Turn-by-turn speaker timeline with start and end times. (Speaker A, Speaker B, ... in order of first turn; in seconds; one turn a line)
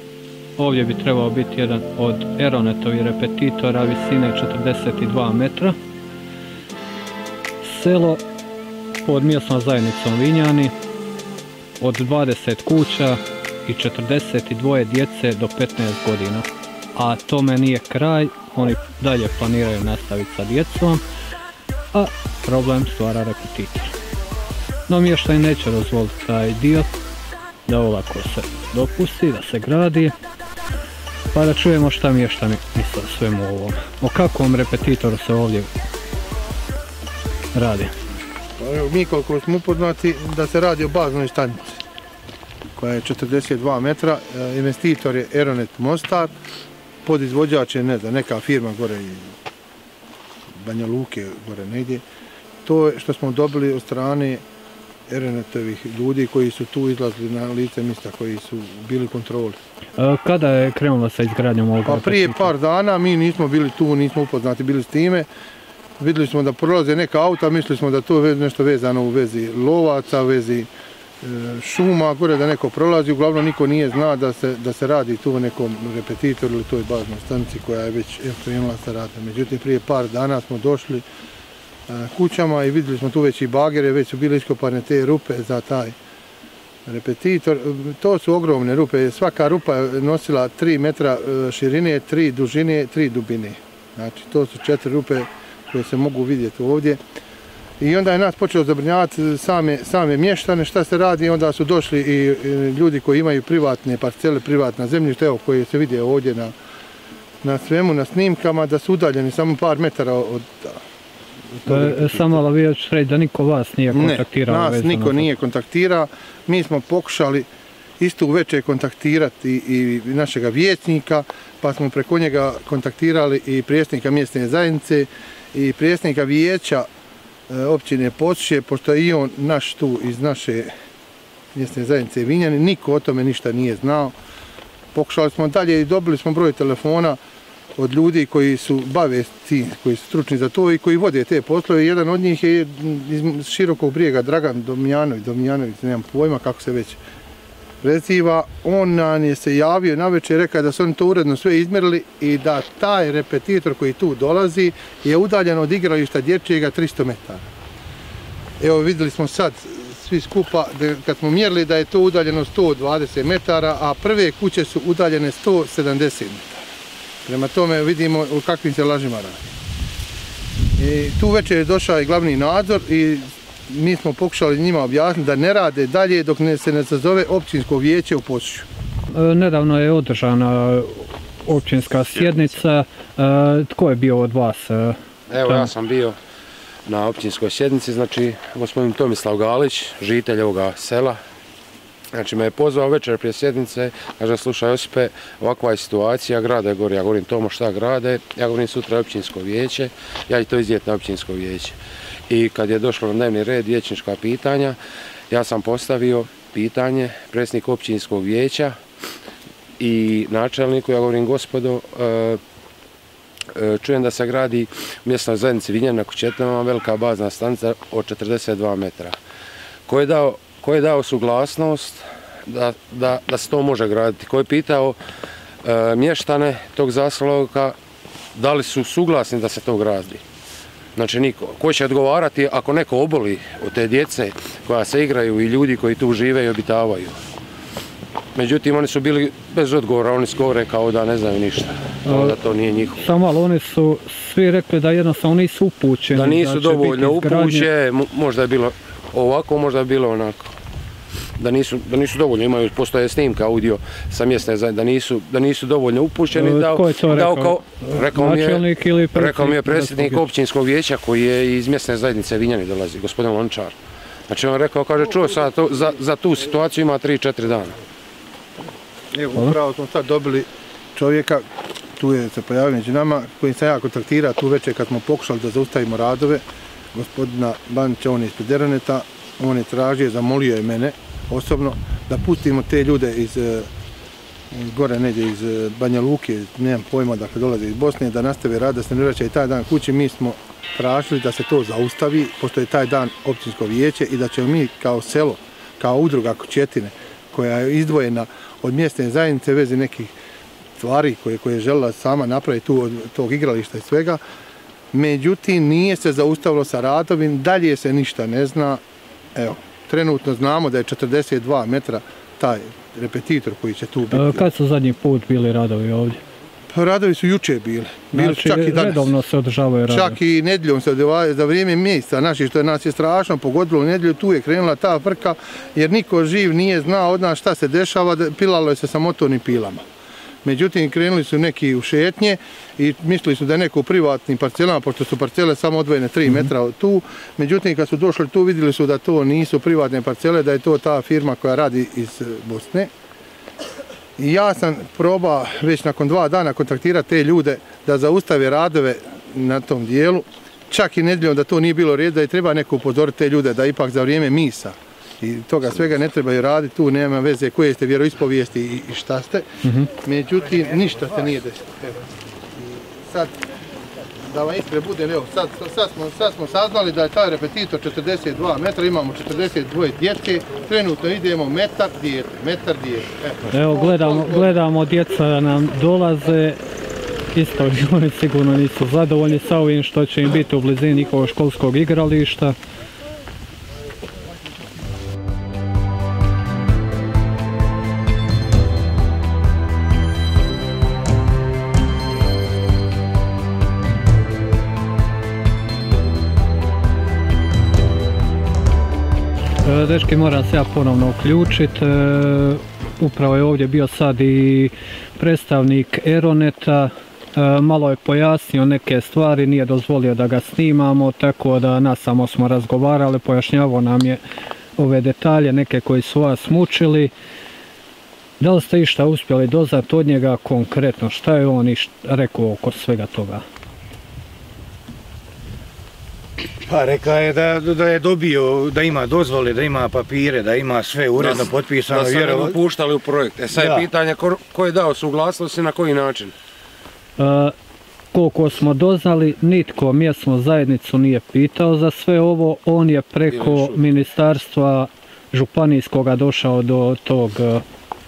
Speaker A: 0.6-5.7
Speaker A: 7.6-8.2
Speaker A: 9.0-10.7
Speaker A: 11.8-21.0
Speaker A: 21.9-23.9
Speaker A: 24.9-26.9
Speaker A: 27.7-30.1
Speaker A: 31.3-35.7
Speaker A: 37.5-37.9
Speaker B: 38.6-41.8
Speaker B: 42.8-46.3
Speaker B: 47.0-49.3
Speaker B: 50.6-52.0
Speaker B: 52.6-54.4
Speaker B: 55.1-59.6
Speaker A: 60.0-62.5
Speaker B: 61.9-65.3
Speaker B: 66.0-70.7
Speaker B: 71.2-81.0
Speaker B: 81.9-85.9
Speaker B: 86.8-97.0
Speaker B: 97.8-106.5
Speaker B: 107.4-110.8
Speaker B: 111.6-112.4
Speaker A: 111.7-115.3
Speaker B: 113.9-117.5
Speaker B: 118.0-126.9
Speaker B: 127.5-130.7
Speaker B: 131.5-134.1
Speaker B: 134.9-137.2
Speaker B: 137.8-147.0
Speaker B: 147.8-157.4
Speaker B: 158.6-166.7
Speaker B: 167.2-169.5
Speaker B: 170.8-178.7
Speaker A: 179.1-185.7
Speaker C: 185.3-186.1
Speaker C: 186.9-191.2
Speaker C: 192.1-201.8
Speaker C: 202.3-204.8
Speaker C: 205.3-208.8
Speaker C: 209.8-212.4
Speaker C: 213.5-219.1
Speaker C: 219.9-225.0
Speaker C: 225.6-227.8
Speaker C: 228.3-230.2
Speaker C: 230.9-237.1
Speaker C: 238.3-243.1
Speaker A: 242.1-242.4
Speaker A: 242.9-247.7
Speaker C: 246.1-250.5
Speaker C: 251.4-258.6
Speaker A: 256.3-260.3
Speaker C: 259.1-263.8
Speaker C: 264.3-267.8
Speaker B: 269.1-271.4
Speaker B: 272.0-276.4
Speaker B: 276.9-283.7
Speaker B: 284.5-300.1
Speaker B: 300.8-304.2
Speaker B: 304.9-308.8
Speaker B: 309.4-314.5
Speaker A: 314.1-316.2
Speaker B: 316.7-319.1
Speaker A: 318.1-320.2
Speaker B: 319.9-329.8
Speaker B: 330.4-342.9
Speaker B: 344.2-362.0
Speaker A: 359.6-359.9
Speaker B: 362.6-363.3
Speaker B: 364.3-374.5
Speaker A: 373.5-376.6
Speaker A: 377.3-382.5
Speaker A: 399.6-414.2
Speaker A: 414.8-417.1
Speaker A: 418.4-423.4
Speaker D: 426.7-432.4
Speaker C: 431.1-436.3
Speaker A: 437.2-437.5
Speaker A: 438.1-447.6
Speaker C: 443.3-443.8